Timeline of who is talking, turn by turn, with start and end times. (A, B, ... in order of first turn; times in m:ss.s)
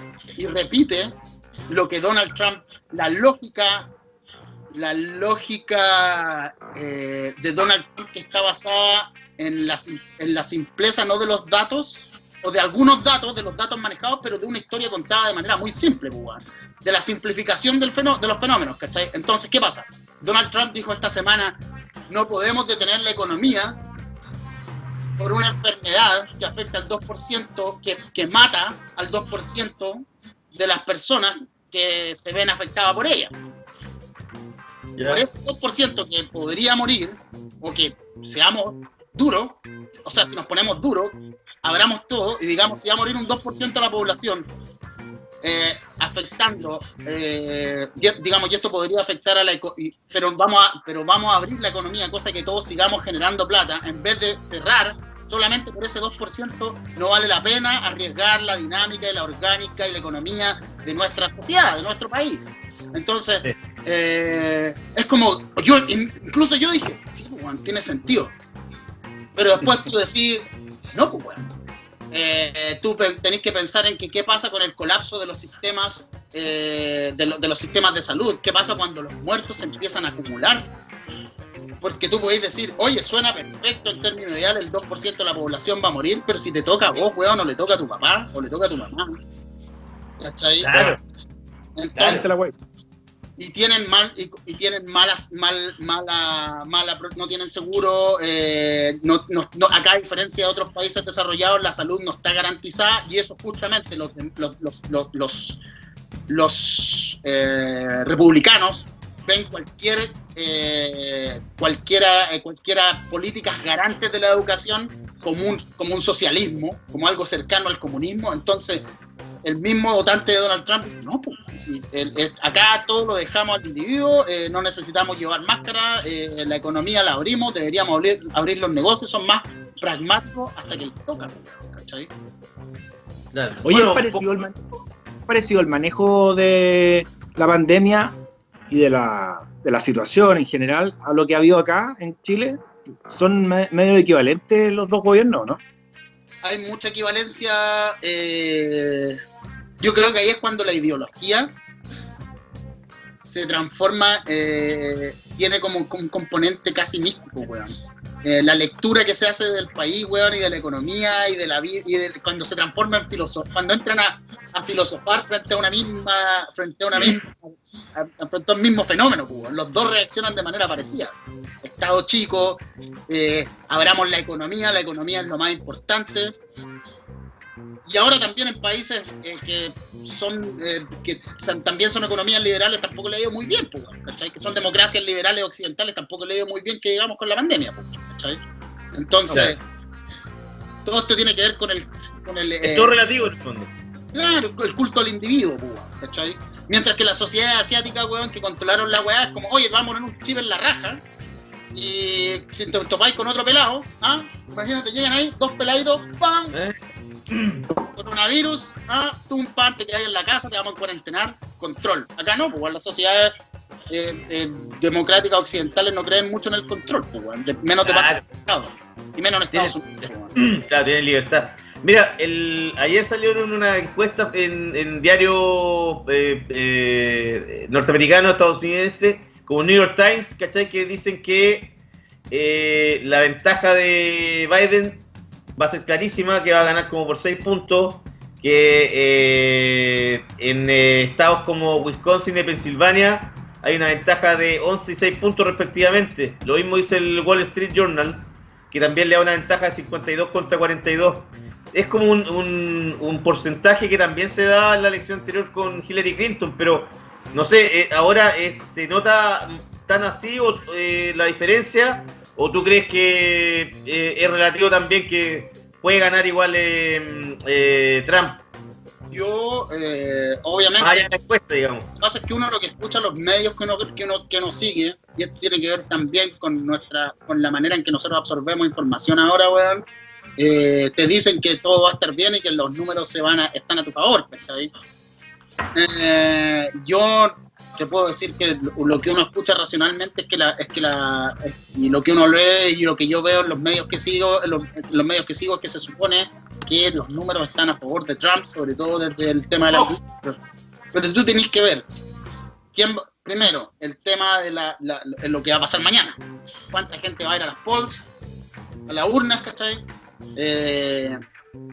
0:00.4-0:01.2 A
0:01.7-0:03.9 A
0:04.7-0:23.8 A
0:25.2-0:33.3 A
0:35.0-0:35.2 B
0:35.1-0:44.5 A
0:45.4-1:08.3 A
1:09.4-1:11.5 A
1:12.1-1:20.7 A
1:21.8-1:29.2 A
1:30.2-1:31.0 A
1:30.6-1:31.0 B
1:31.8-1:32.2 A
1:32.0-1:32.6 C
1:33.4-1:45.6 A
1:46.3-1:58.8 A
1:59.4-2:12.1 A
2:13.3-2:14.3 B
2:13.6-2:18.2 C
2:18.7-2:25.6 C
2:26.4-2:29.2 A
2:29.8-2:31.5 A
2:33.3-2:37.7 A
2:38.2-2:56.4 A
2:57.9-3:08.4 A
3:09.0-3:09.6 A
3:09.3-3:09.6 B
3:10.8-3:13.0 A
3:12.6-3:13.7 B
3:14.1-3:21.0 A
3:21.7-3:26.6 A
3:27.3-3:27.6 B
3:27.9-3:33.3 A
3:33.9-3:40.3 A
3:37.8-3:38.2 B
3:39.5-3:39.8 B
3:40.4-3:51.8 B
3:52.3-3:55.1 B
3:55.6-4:28.4 B
4:29.1-4:31.0 A
4:30.8-4:31.9 B
4:32.0-4:39.8 A
4:40.4-4:44.7 A
4:45.8-5:00.4 A
5:00.9-5:01.8 A
5:02.7-5:06.2 A
5:06.7-5:08.1 A
5:08.9-5:09.8 A
5:10.4-5:11.2 A